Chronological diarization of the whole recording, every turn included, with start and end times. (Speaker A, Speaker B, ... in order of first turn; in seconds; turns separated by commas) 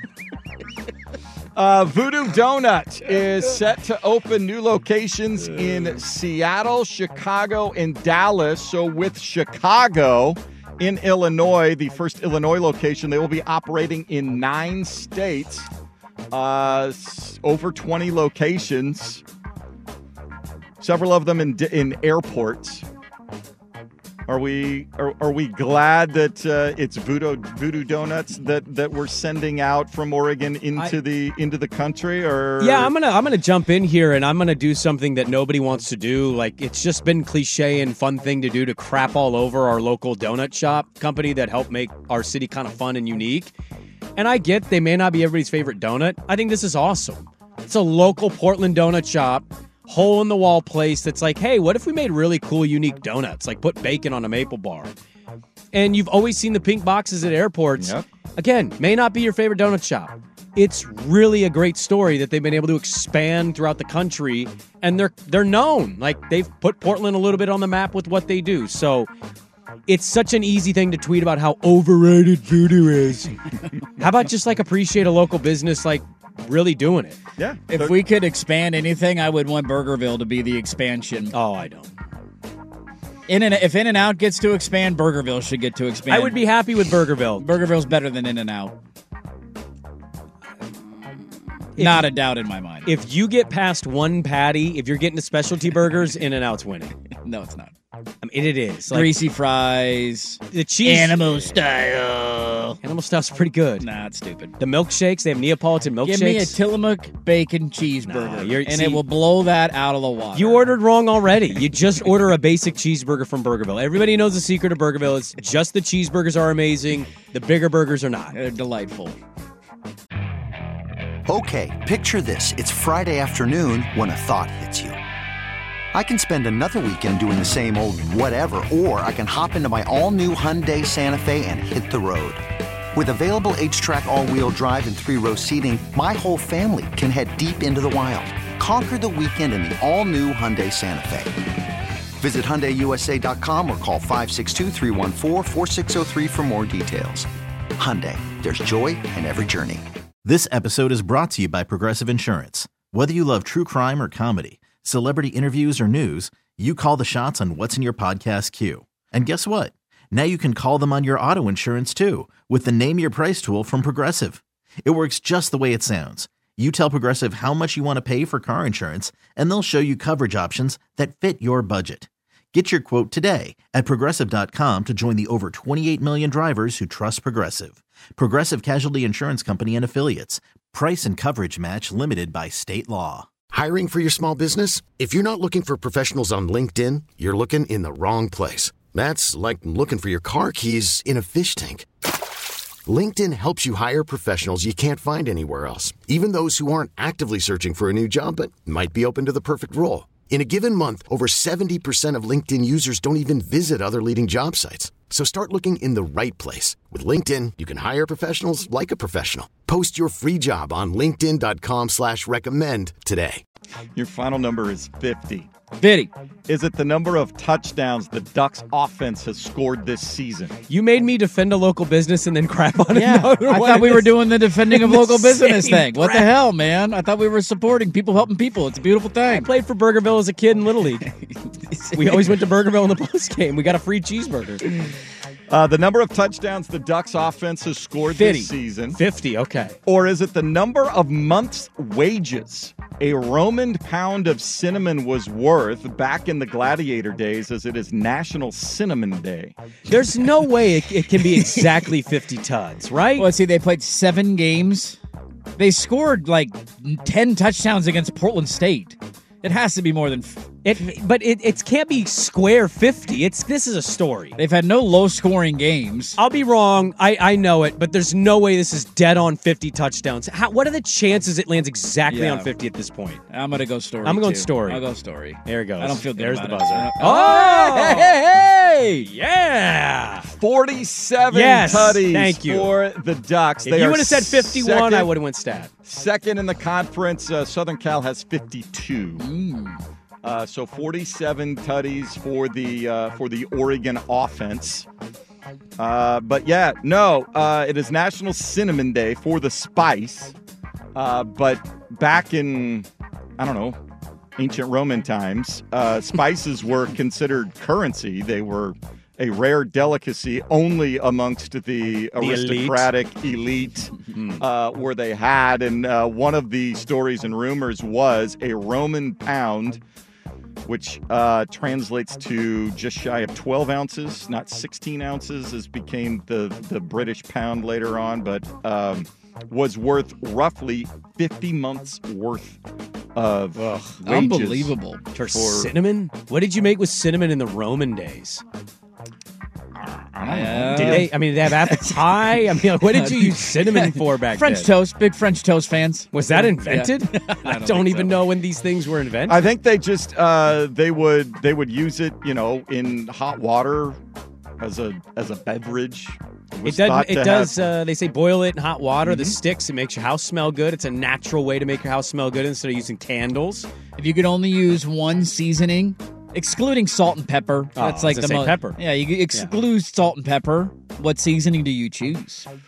Speaker A: 1.5-15.7, Speaker A: 16.3-19.2, Speaker A: 20.8-22.8, Speaker A: 24.3-32.9, Speaker B: 32.6-43.5, Speaker B: 44.2-54.9, Speaker B: 55.7-69.1, Speaker A: 57.8-58.0, Speaker B: 69.9-73.3, Speaker B: 74.0-77.2, Speaker A: 77.4-77.9, Speaker C: 77.7-81.3, Speaker B: 81.3-81.9, Speaker C: 83.3-86.4, Speaker B: 86.1-87.5, Speaker C: 87.3-88.7, Speaker B: 91.8-92.1, Speaker C: 91.8-92.9, Speaker B: 92.8-96.9, Speaker C: 97.2-97.7, Speaker B: 98.2-99.2, Speaker C: 98.9-102.8, Speaker B: 100.5-101.6, Speaker B: 102.8-103.8, Speaker C: 103.8-104.5, Speaker B: 104.6-106.6, Speaker C: 106.0-110.7, Speaker B: 108.0-109.0, Speaker B: 110.3-118.4, Speaker C: 118.3-119.2, Speaker D: 121.3-125.0, Speaker D: 125.9-132.4, Speaker D: 132.9-141.3, Speaker D: 142.2-149.8, Speaker E: 150.2-183.3, Speaker F: 183.5-191.9, Speaker F: 192.9-213.4, Speaker A: 213.9-215.5, Speaker C: 215.8-216.1, Speaker A: 216.5-220.5, Speaker B: 220.7-226.3, Speaker C: 222.9-229.5, Speaker B: 229.3-231.1, Speaker C: 231.4-232.3, Speaker B: 231.9-234.7, Speaker A: 235.5-239.0, Speaker C: 238.2-238.5, Speaker B: 238.2-239.8, Speaker A: 239.9-249.6, Speaker B: 249.9-253.3, Speaker C: 253.2-255.0, Speaker C: 255.6-260.5, Speaker B: 260.6-264.4, Speaker C: 264.4-266.2, Speaker B: 266.2-273.2, Speaker C: 272.1-272.5, Speaker C: 273.3-279.1, Speaker B: 274.0-274.9, Speaker B: 275.4-278.2, Speaker B: 279.0-280.3, Speaker A: 280.3-285.1, Speaker B: 281.3-282.8, Speaker C: 281.7-282.0, Speaker B: 283.6-285.7, Speaker A: 285.9-289.2, Speaker C: 289.2-289.8, Speaker A: 290.2-294.9, Speaker A: 295.8-300.3, Speaker A: 300.9-302.9, Speaker A: 303.4-303.8, Speaker A: 304.4-319.8, Speaker B: 312.2-312.9, Speaker B: 314.2-314.4, Speaker A: 320.7-332.6, Speaker A: 333.1-334.7, Speaker B: 333.6-334.0, Speaker C: 334.0-335.0, Speaker B: 335.1-338.4, Speaker A: 335.3-335.7, Speaker A: 339.8-341.0, Speaker C: 340.2-341.1, Speaker B: 340.7-344.7, Speaker C: 341.7-342.0, Speaker C: 342.8-348.2, Speaker B: 346.1-349.4, Speaker A: 349.3-354.0, Speaker A: 354.6-357.5, Speaker B: 356.6-363.7, Speaker C: 359.1-359.3, Speaker C: 364.0-372.4, Speaker B: 367.8-368.8